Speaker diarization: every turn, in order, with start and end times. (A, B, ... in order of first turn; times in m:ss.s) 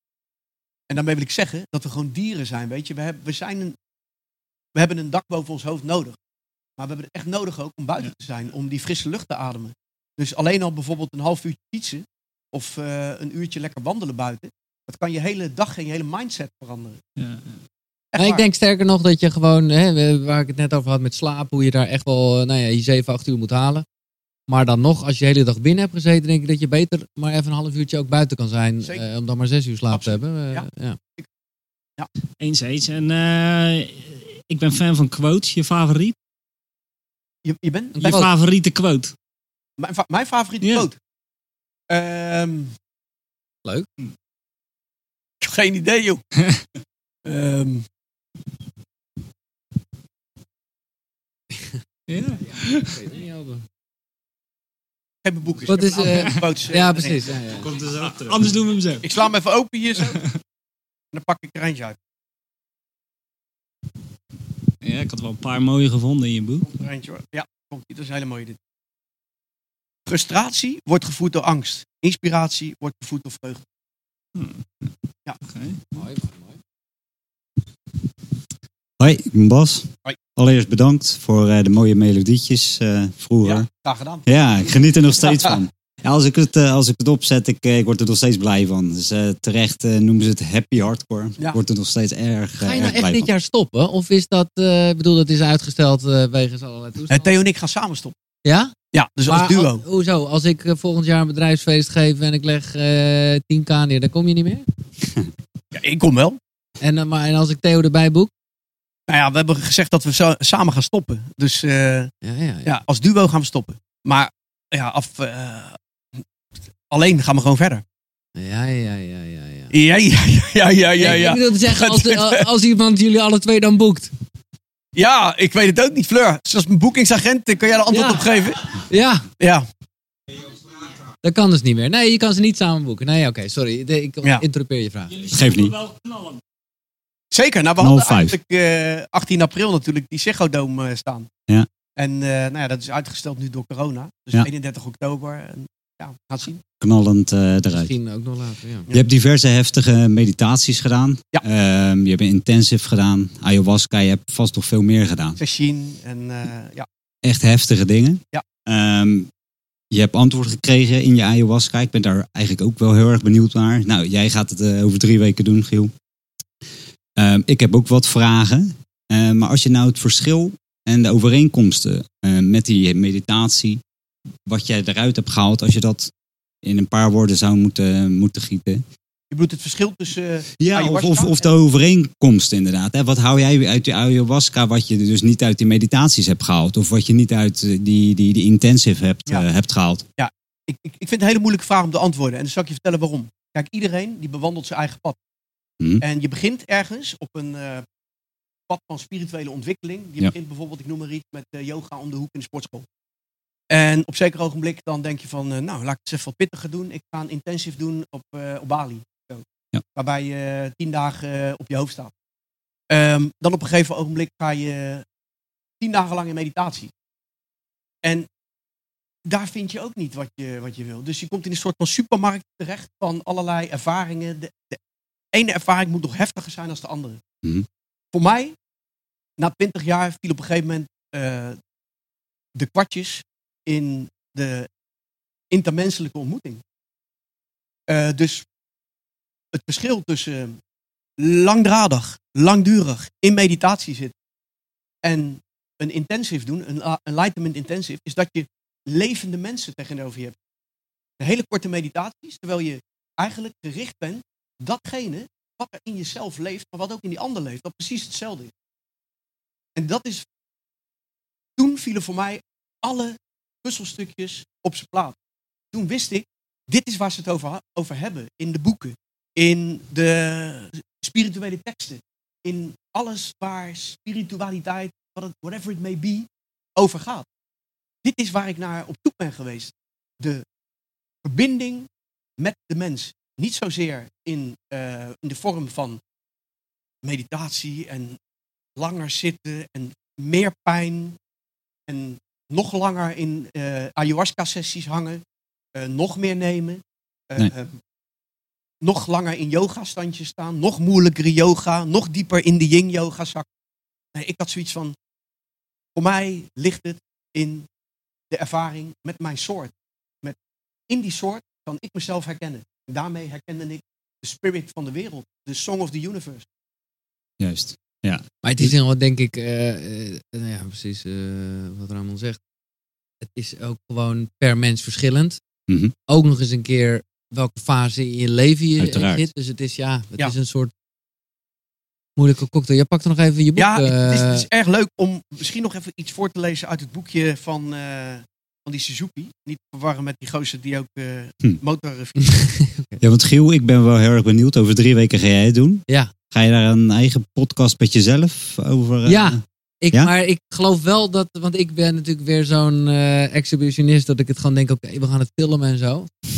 0:00.9-0:03.8 A
0:04.8-0:06.2 A
0:06.8-0:17.0 A
0:17.2-0:17.6 B
0:18.1-0:18.4 A
0:18.2-0:23.8 C
0:24.5-0:31.0 C
0:29.9-0:31.3 A
0:32.4-0:36.2 B
0:37.4-0:38.3 A
0:38.0-0:38.3 C
0:38.0-0:39.1 B
0:39.8-0:41.0 A
0:40.6-0:40.9 B
0:41.9-0:42.8 A
0:45.4-0:46.2 A
0:47.2-0:47.9 A
0:52.1-0:52.9 B
0:52.6-0:53.6 C
0:55.2-0:57.3 A
0:55.7-0:57.7 C
0:56.0-0:56.4 B
0:57.6-0:59.1 B
0:59.0-1:00.3 A
1:00.0-1:00.3 B
1:01.1-1:02.0 A
1:04.8-1:06.7 B
1:06.6-1:08.6 A
1:10.1-1:13.6 A
1:14.4-1:14.6 B
1:15.4-1:15.8 B
1:15.9-1:16.6 C
1:19.0-1:23.7 D
1:23.4-1:24.3 A
1:24.3-1:33.3 D
1:25.2-1:25.6 A
1:32.6-1:37.3 C
1:37.1-1:38.2 A
1:38.4-1:38.7 C
1:38.9-1:39.8 A
1:39.3-1:44.6 C
1:45.7-1:46.4 A
1:46.8-1:48.3 C
1:49.1-1:52.1 A
1:52.2-1:52.8 C
1:52.6-1:56.2 A
1:56.9-1:57.8 A
1:58.4-1:59.7 C
1:59.7-2:02.5 A
2:01.0-2:04.1 C
2:05.0-2:08.8 A
2:07.9-2:08.3 C
2:08.9-2:09.2 C
2:09.4-2:09.7 A
2:11.2-2:15.3 C
2:15.2-2:16.4 B
2:15.3-2:15.7 D
2:17.3-2:21.3 A
2:17.8-2:18.4 D
2:22.0-2:26.6 A
2:26.8-2:27.9 D
2:27.8-2:28.9 C
2:28.9-2:35.4 D
2:35.4-2:36.9 A
2:37.2-2:39.3 D
2:39.9-2:45.9 D
2:47.2-2:53.8 D
2:54.5-2:56.1 D
2:56.6-2:58.8 D
2:59.3-3:01.4 A
3:00.6-3:10.0 D
3:10.2-3:15.2 A
3:16.0-3:17.9 A
3:18.7-3:22.9 A
3:23.7-3:32.1 A
3:32.9-3:35.0 A
3:35.8-3:36.9 A
3:39.3-3:44.8 A
3:45.3-3:47.2 A
3:48.1-3:48.6 A
3:49.4-3:51.6 A
3:52.6-3:54.7 A
3:55.5-3:56.6 A
3:57.9-3:58.4 A
3:59.5-4:00.6 A
4:01.2-4:04.1 A
4:05.0-4:10.4 A
4:11.2-4:18.5 A
4:19.8-4:20.3 A
4:21.6-4:25.2 A
4:25.7-4:37.3 A
4:38.0-4:40.4 A
4:41.2-4:46.0 A
4:47.0-4:48.2 A
4:48.8-4:51.2 A
4:51.9-4:55.2 A
4:55.8-4:57.8 A
4:58.8-5:03.5 A
5:04.1-5:05.0 A
5:06.0-5:07.7 A
5:08.3-5:10.4 A
5:10.9-5:16.5 A
5:17.4-5:18.7 D
5:18.4-5:22.4 C
5:23.2-5:25.4 C
5:25.7-5:25.9 D
5:26.1-5:30.7 C
5:28.8-5:29.3 D
5:32.2-5:34.5 C
5:33.6-5:42.3 A
5:42.2-5:43.0 C
5:43.0-5:50.1 D
5:49.1-5:56.1 C